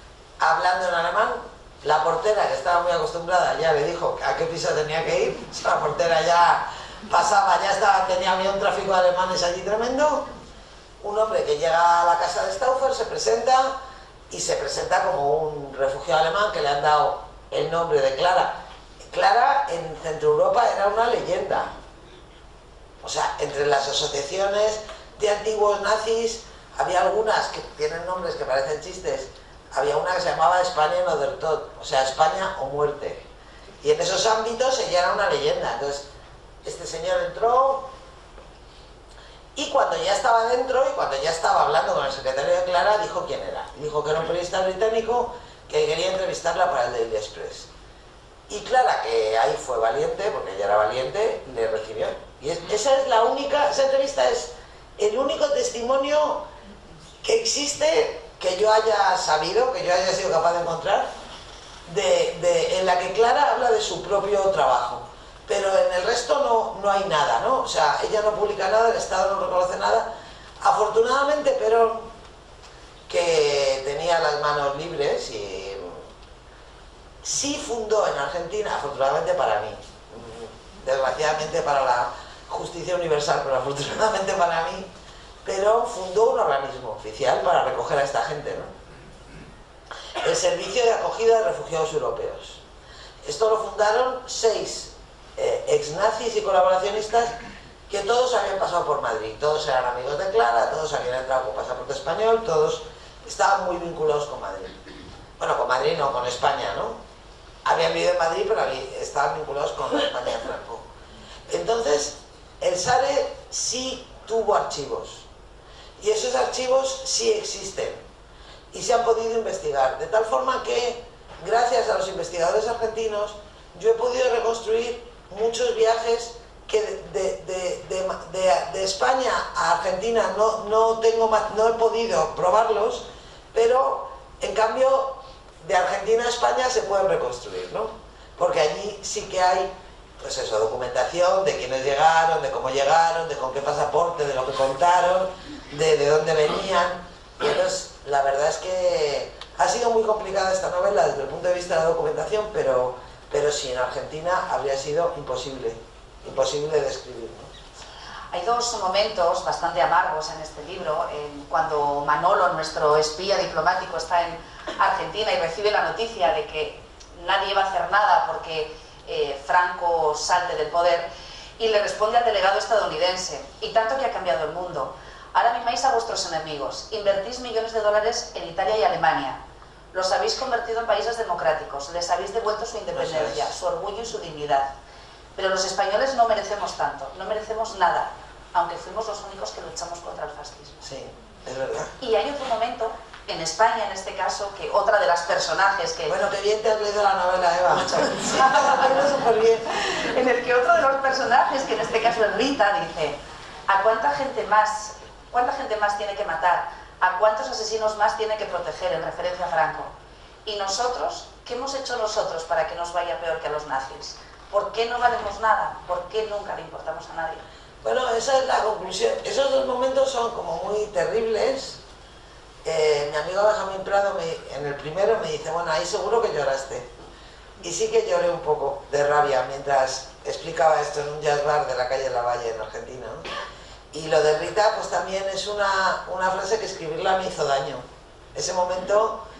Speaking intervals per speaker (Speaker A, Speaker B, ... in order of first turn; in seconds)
Speaker A: 0.4-10.3, 11.0-13.8, 14.3-21.7, 23.0-33.2, 33.8-36.0, 36.6-37.9, 39.5-47.7, 48.5-56.4, 57.2-61.1, 61.9-72.1, 73.1-76.0, 77.2-84.9, 85.4-88.7, 90.2-92.6, 93.2-97.4, 97.9-104.8, 105.4-107.0, 107.6-110.8, 111.5-115.2, 116.0-118.0, 118.7-157.5, 182.9-183.5, 190.8-191.9, 196.1-199.6, 217.8-221.8, 222.6-226.9, 227.6-233.3, 233.9-239.2
Speaker B: 158.3-171.1, 171.6-179.4, 179.9-184.7, 185.3-190.8, 192.0-196.2, 198.2-198.9, 199.8-209.9, 210.4-217.4